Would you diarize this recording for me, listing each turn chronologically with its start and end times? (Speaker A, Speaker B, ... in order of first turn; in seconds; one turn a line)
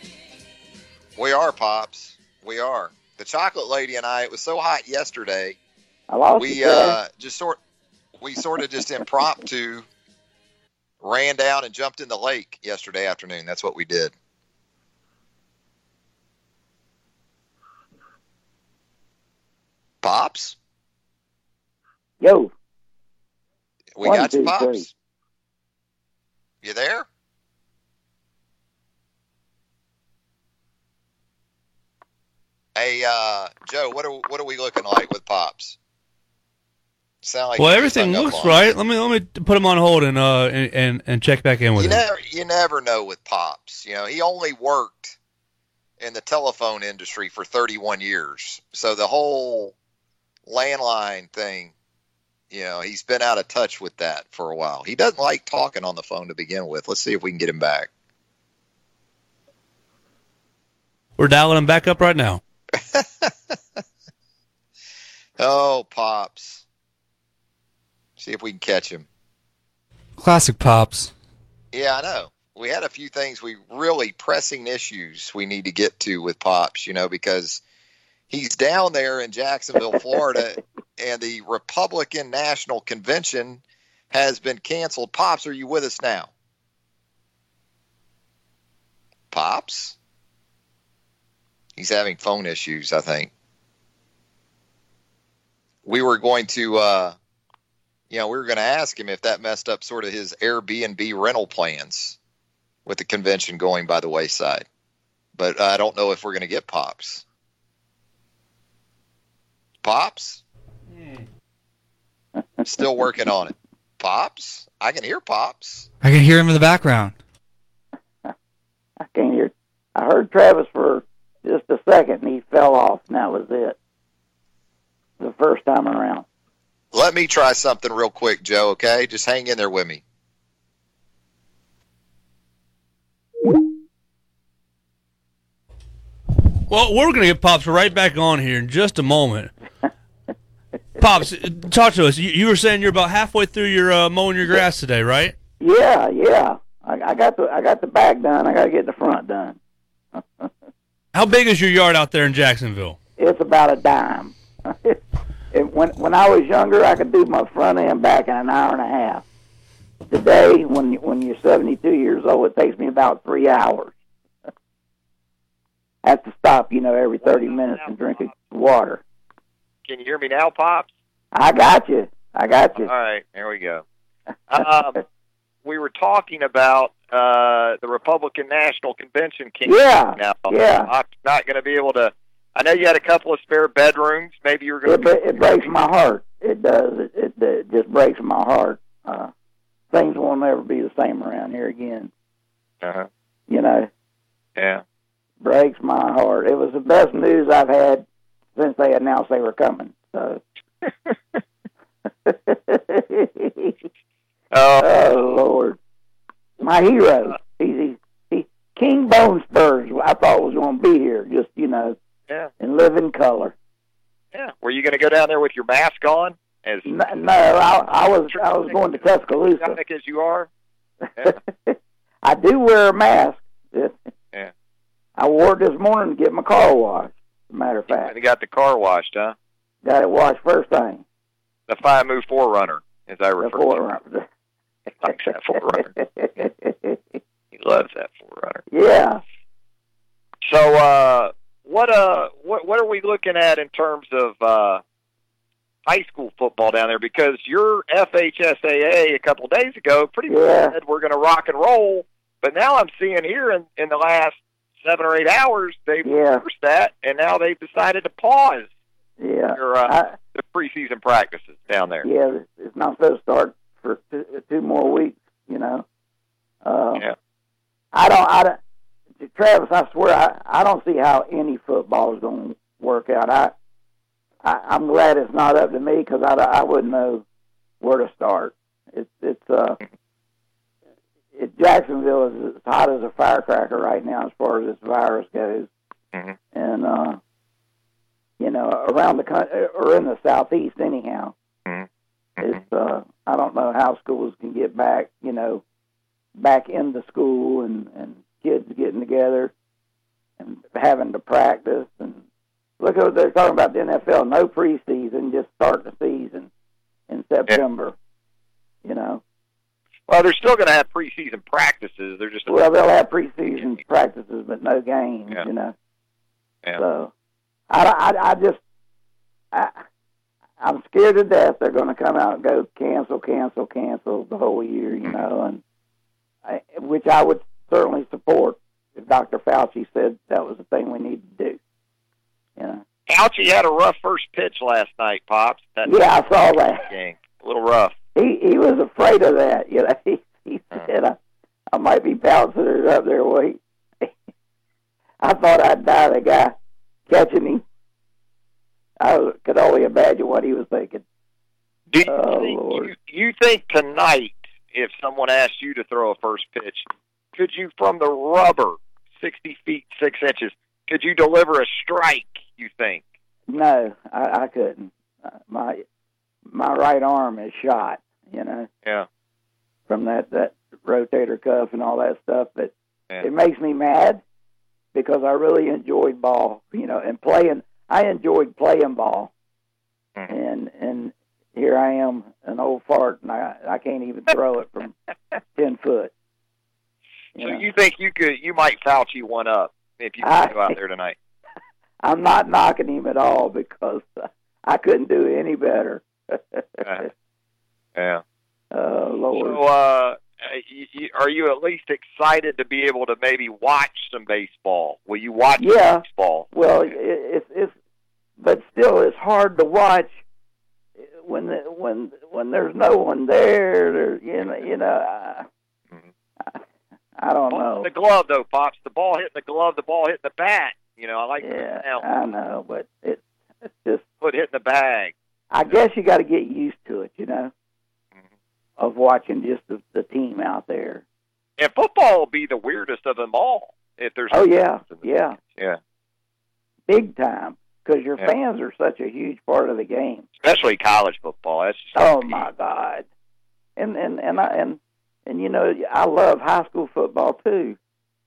Speaker A: 1.1-5.6
Speaker B: 6.1-7.0
Speaker A: 6.4-7.6
Speaker A: 8.2-9.8
Speaker A: 11.0-14.1
Speaker A: 20.0-20.6
Speaker B: 22.2-22.5
Speaker A: 23.9-24.9
Speaker B: 24.0-24.9
Speaker A: 26.6-27.1
Speaker A: 32.7-35.8
Speaker A: 37.2-38.7
Speaker C: 37.6-42.0
Speaker A: 41.8-45.1
Speaker A: 46.0-49.7
Speaker A: 50.5-51.7
Speaker A: 52.5-57.9
Speaker C: 61.2-62.4
Speaker A: 62.8-63.5
Speaker A: 65.4-66.6
Speaker A: 68.2-69.0
Speaker D: 70.2-71.1
Speaker A: 71.7-77.6
Speaker A: 78.3-86.3
Speaker A: 89.3-90.0
Speaker A: 91.8-93.3
Speaker A: 95.8-97.2
Speaker A: 98.1-102.2
Speaker A: 102.8-104.7
Speaker A: 105.3-107.2
Speaker A: 109.8-110.4
Speaker C: 110.9-111.2
Speaker A: 112.6-115.9
Speaker D: 116.0-117.1
Speaker B: 119.1-123.8
Speaker B: 125.2-126.2
Speaker A: 126.9-130.0
Speaker C: 136.7-139.5
Speaker C: 141.0-145.3
Speaker B: 145.6-149.6
Speaker B: 150.1-150.5
Speaker C: 151.1-152.9
Speaker B: 153.2-155.0
Speaker B: 155.5-159.2
Speaker B: 160.1-163.9
Speaker B: 166.0-169.0
Speaker E: 167.2-168.3
Speaker E: 169.8-170.9
Speaker B: 171.3-172.9
Speaker E: 172.7-173.8
Speaker E: 174.5-175.0
Speaker E: 175.6-185.7
Speaker B: 179.6-180.9
Speaker B: 184.8-189.3
Speaker B: 189.9-192.1
Speaker E: 192.8-193.1
Speaker B: 193.5-193.9
Speaker E: 194.6-194.8
Speaker B: 195.4-200.4
Speaker B: 202.2-203.7
Speaker E: 204.5-204.9
Speaker B: 204.8-205.8
Speaker B: 206.6-212.0
Speaker B: 212.6-213.5
Speaker E: 214.3-217.5
Speaker B: 216.8-219.8
Speaker E: 218.0-220.5
Speaker B: 221.2-223.9
Speaker B: 225.2-228.1
Speaker E: 227.9-229.3
Speaker B: 229.8-231.0
Speaker E: 231.7-233.8
Speaker B: 233.4-234.2
Speaker E: 235.0-235.9
Speaker B: 236.0-237.0
Speaker E: 237.5-238.6
Speaker B: 238.7-239.2
Speaker E: 240.4-244.8
Speaker E: 245.9-258.7
Speaker B: 250.3-250.8
Speaker B: 256.0-256.4
Speaker B: 259.2-260.1
Speaker E: 259.5-262.1
Speaker B: 262.0-265.8
Speaker B: 266.6-267.1
Speaker B: 267.9-268.6
Speaker B: 269.2-273.5
Speaker B: 274.4-277.2
Speaker B: 277.8-279.8
Speaker B: 281.3-285.7
Speaker B: 286.5-287.2
Speaker B: 288.4-291.3
Speaker B: 292.4-295.6
Speaker B: 296.4-299.5
Speaker B: 300.4-302.2
Speaker B: 302.8-306.5
Speaker B: 307.1-307.9
Speaker B: 308.8-309.2
Speaker E: 310.1-312.6
Speaker B: 312.5-315.7
Speaker B: 316.8-317.1
Speaker B: 317.7-318.6
Speaker B: 319.5-319.8
Speaker B: 320.6-325.6
Speaker B: 326.4-331.6
Speaker B: 332.6-332.8
Speaker E: 333.1-337.9
Speaker B: 335.8-336.9
Speaker B: 338.1-341.2
Speaker B: 341.7-344.1
Speaker B: 345.2-346.5
Speaker B: 347.1-347.6
Speaker B: 349.0-351.0
Speaker E: 351.9-363.0
Speaker B: 352.1-352.9
Speaker B: 363.5-365.8
Speaker B: 366.5-368.7
Speaker B: 369.9-374.2
Speaker B: 374.9-379.3
Speaker B: 380.3-384.9
Speaker B: 385.5-386.1
Speaker B: 387.4-387.6
Speaker E: 387.4-391.1
Speaker B: 390.2-390.7
Speaker B: 392.0-396.6
Speaker E: 396.8-397.1
Speaker E: 397.9-398.2
Speaker B: 398.7-399.6
Speaker E: 399.3-406.9
Speaker B: 405.6-407.7
Speaker B: 408.4-410.2
Speaker B: 411.0-415.5
Speaker B: 417.2-417.9
Speaker E: 417.5-422.0
Speaker B: 421.4-424.1
Speaker E: 424.2-425.1
Speaker B: 425.5-427.5
Speaker B: 428.8-431.0
Speaker E: 431.6-435.8
Speaker B: 434.3-435.4
Speaker B: 436.9-440.2
Speaker E: 440.4-442.5
Speaker B: 441.9-443.1
Speaker B: 443.8-447.8